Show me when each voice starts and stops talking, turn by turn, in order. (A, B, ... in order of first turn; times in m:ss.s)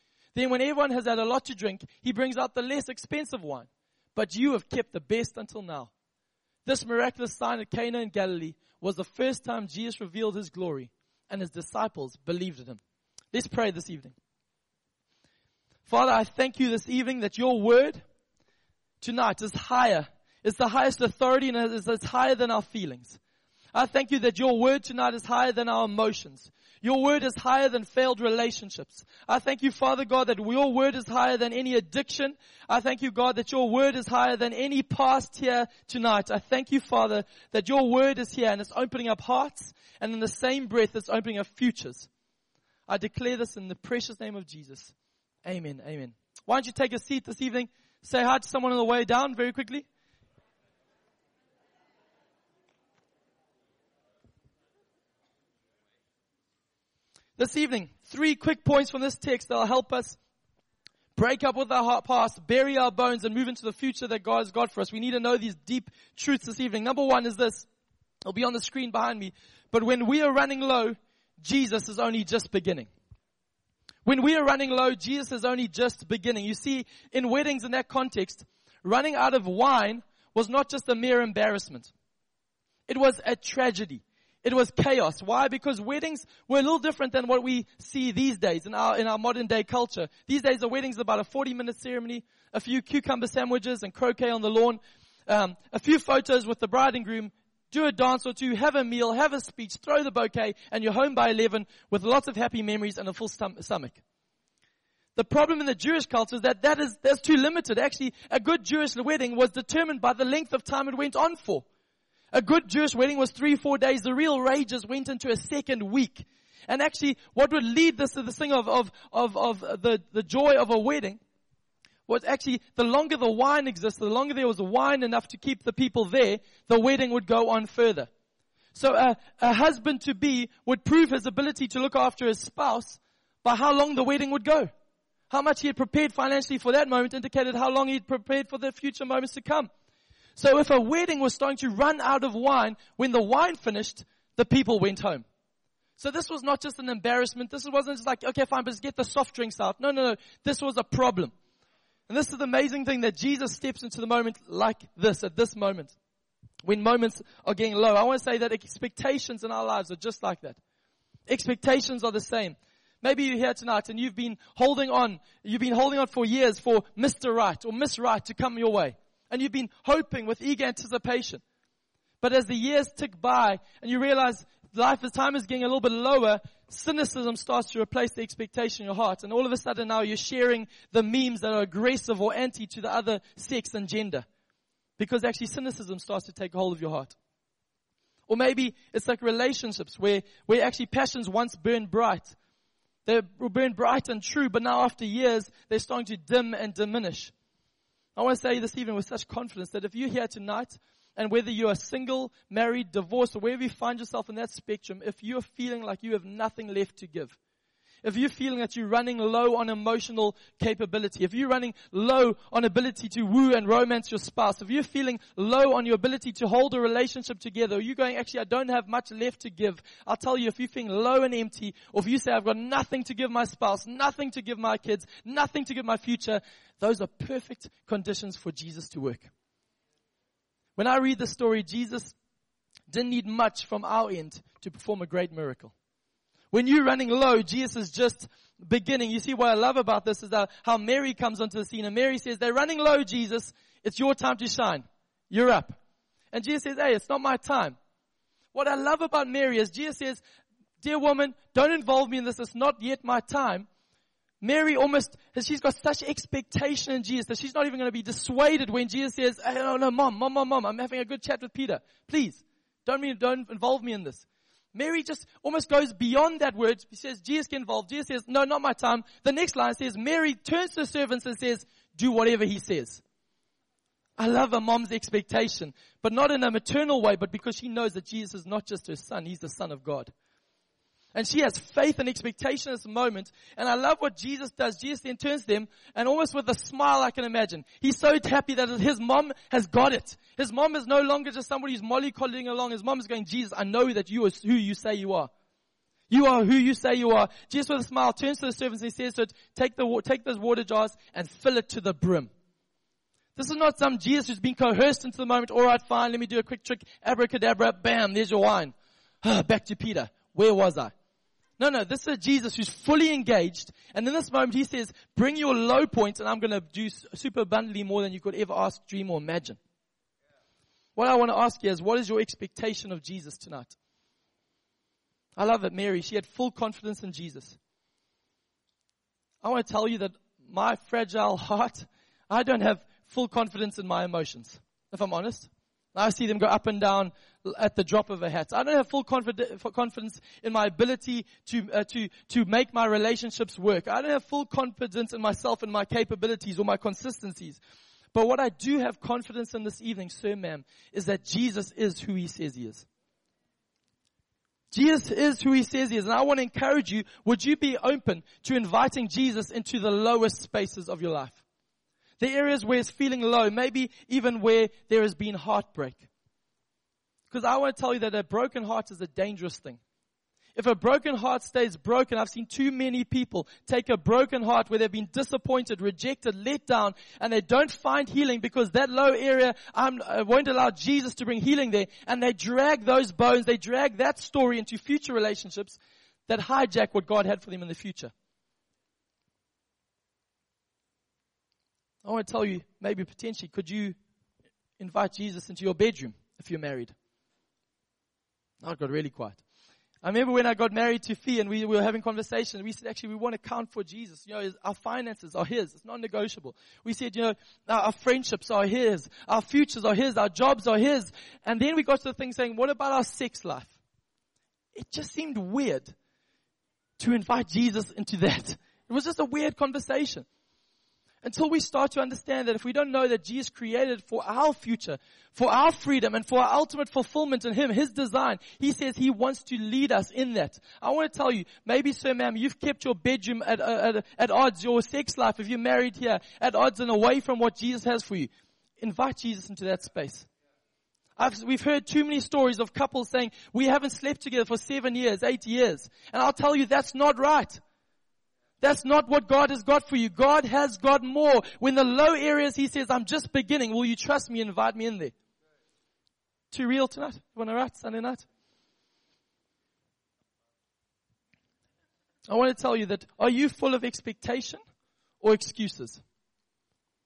0:00.4-0:05.9 A
0:06.6-0:12.8 A
0:13.3-0:14.2 A
0:15.9-0:18.0 A
0:19.0-0:23.2 A
0:23.7-0:42.1 A
0:42.9-0:44.9 A
0:45.4-0:49.9 A
0:57.4-1:00.2 A
1:01.2-1:07.7 A
1:08.3-1:12.9 A
1:14.0-1:21.9 A
1:22.9-1:44.0 A
1:45.2-1:51.6 A
1:52.3-2:01.2 A
2:02.1-2:08.1 A
2:08.8-2:14.7 A
2:15.3-2:19.7 A
2:20.4-2:25.2 A
2:26.0-2:31.3 A
2:32.1-2:36.0 A
2:36.6-2:40.6 A
2:41.3-2:51.4 A
2:52.2-3:04.3 A
3:05.0-3:07.2 A
3:08.3-3:12.4 A
3:13.0-3:17.3 A
3:18.2-3:27.4 A
3:28.0-3:49.3 A
3:50.8-3:52.2 A
3:52.9-3:55.7 A
3:56.5-4:05.8 A
4:06.3-4:07.8 A
4:08.5-4:10.2 A
4:10.8-4:13.7 A
4:14.4-4:33.0 A
4:34.2-4:40.1 A
4:41.1-4:55.3 A
4:56.1-5:02.3 A
5:03.4-5:10.9 A
5:11.6-5:19.6 A
5:21.0-5:23.8 A
5:25.4-5:27.6 A
5:29.4-5:47.6 A
5:48.1-5:52.9 A
5:54.7-6:01.4 A
6:02.2-6:06.1 A
6:07.3-6:09.8 A
6:10.6-6:28.1 A
6:32.0-6:34.0 A
6:34.8-6:36.9 A
6:38.6-6:39.4 A
6:40.0-6:53.7 A
6:54.7-6:56.0 A
6:57.0-7:00.3 A
7:01.2-7:20.3 A
7:21.2-7:27.6 A
7:28.6-7:35.1 A
7:36.5-7:38.2 A
7:42.3-7:44.6 A
7:45.2-7:46.0 A